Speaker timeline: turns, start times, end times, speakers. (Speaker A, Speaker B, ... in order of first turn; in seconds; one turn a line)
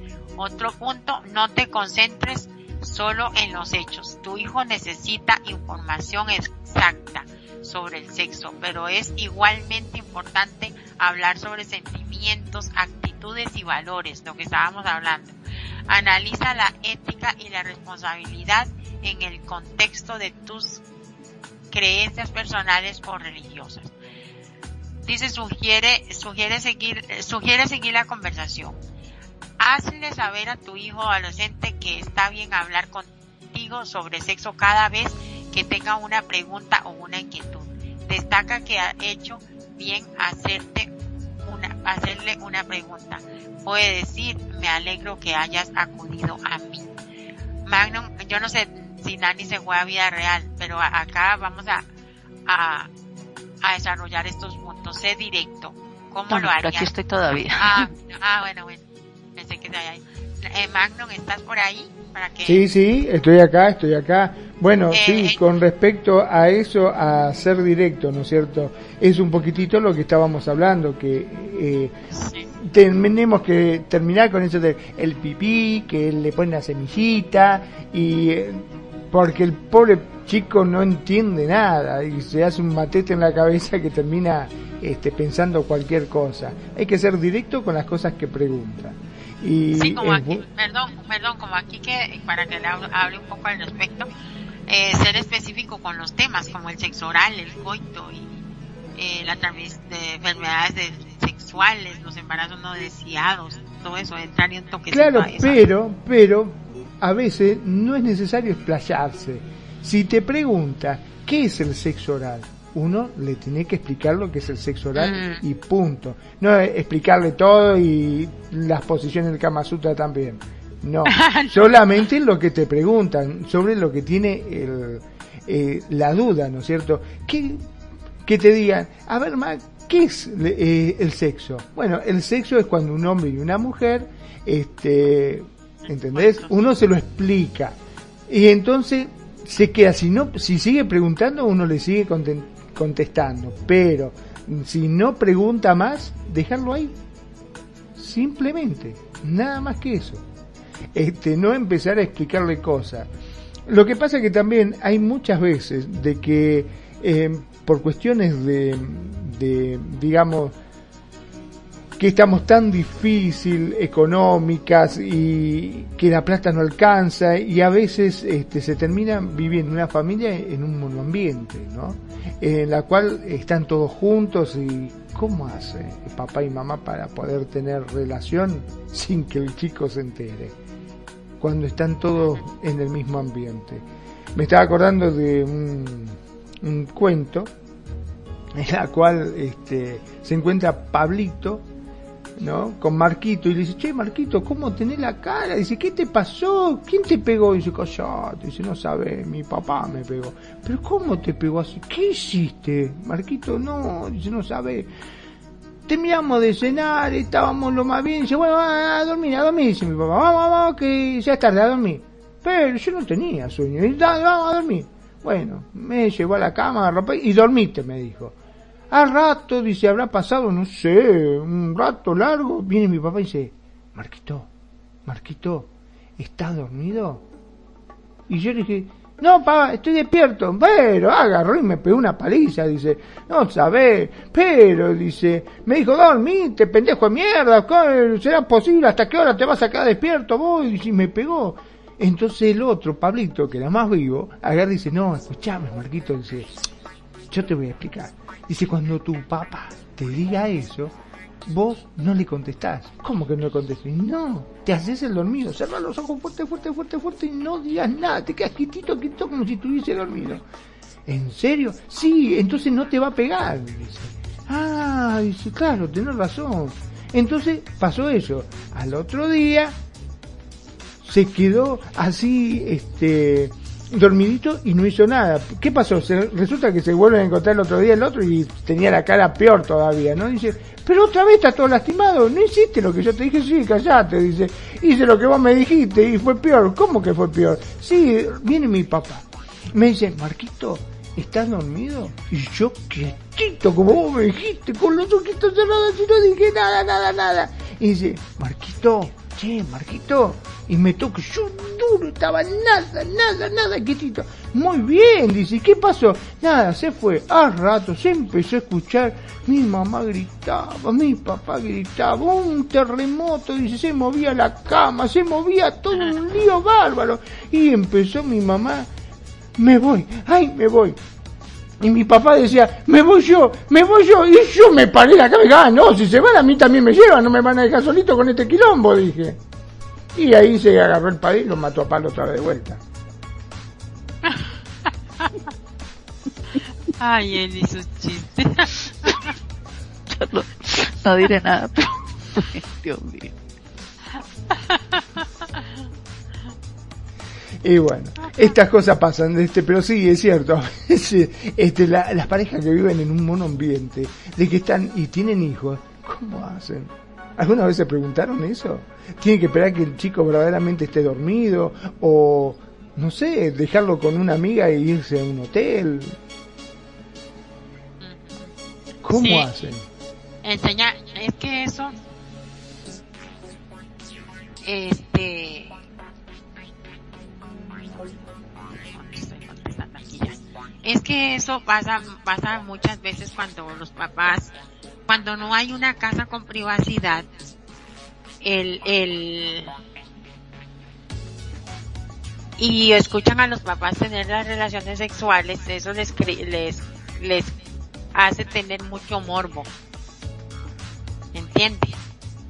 Speaker A: 0.4-15.4
Speaker A: 15.9-20.8
Speaker A: 21.7-23.9
Speaker A: 25.1-28.8
Speaker A: 29.6-40.9
Speaker A: 41.5-46.9
Speaker A: 47.7-51.9
Speaker A: 52.5-52.9
Speaker A: 53.6-56.9
Speaker B: 56.3-57.9
Speaker A: 57.6-62.6
Speaker C: 62.5-71.9
Speaker A: 64.9-65.4
Speaker A: 72.2-72.5
Speaker C: 72.6-90.4
Speaker A: 89.7-94.1
Speaker A: 94.7-98.4
Speaker A: 99.0-105.7
Speaker C: 104.9-127.6
Speaker A: 115.0-115.4
Speaker A: 121.1-121.6
Speaker C: 128.2-137.8
Speaker A: 136.1-136.5
Speaker C: 138.3-147.0
Speaker C: 148.0-150.2
Speaker C: 150.9-153.1
Speaker C: 153.7-160.6
Speaker C: 162.0-180.6
Speaker C: 181.4-187.5
Speaker C: 188.5-191.7
Speaker C: 192.4-204.9
Speaker C: 205.9-218.3
Speaker C: 218.9-224.5
Speaker C: 225.1-227.2
Speaker C: 228.3-246.5
Speaker C: 247.3-250.9
Speaker C: 251.5-260.4
Speaker C: 261.1-269.8
Speaker C: 271.0-318.9
Speaker C: 319.6-321.0
Speaker C: 321.8-329.4
Speaker C: 330.1-332.8
Speaker A: 337.0-339.3
Speaker B: 340.1-343.3
Speaker A: 344.5-345.0
Speaker C: 347.6-366.2
Speaker A: 348.2-348.5
Speaker A: 368.0-368.5
Speaker C: 369.0-369.9
Speaker A: 369.1-369.5
Speaker A: 370.4-372.0
Speaker A: 374.6-375.8
Speaker A: 378.8-384.5
Speaker A: 385.1-387.3
Speaker A: 388.4-389.8
Speaker A: 392.6-397.5
Speaker A: 398.1-399.7
Speaker A: 401.3-402.0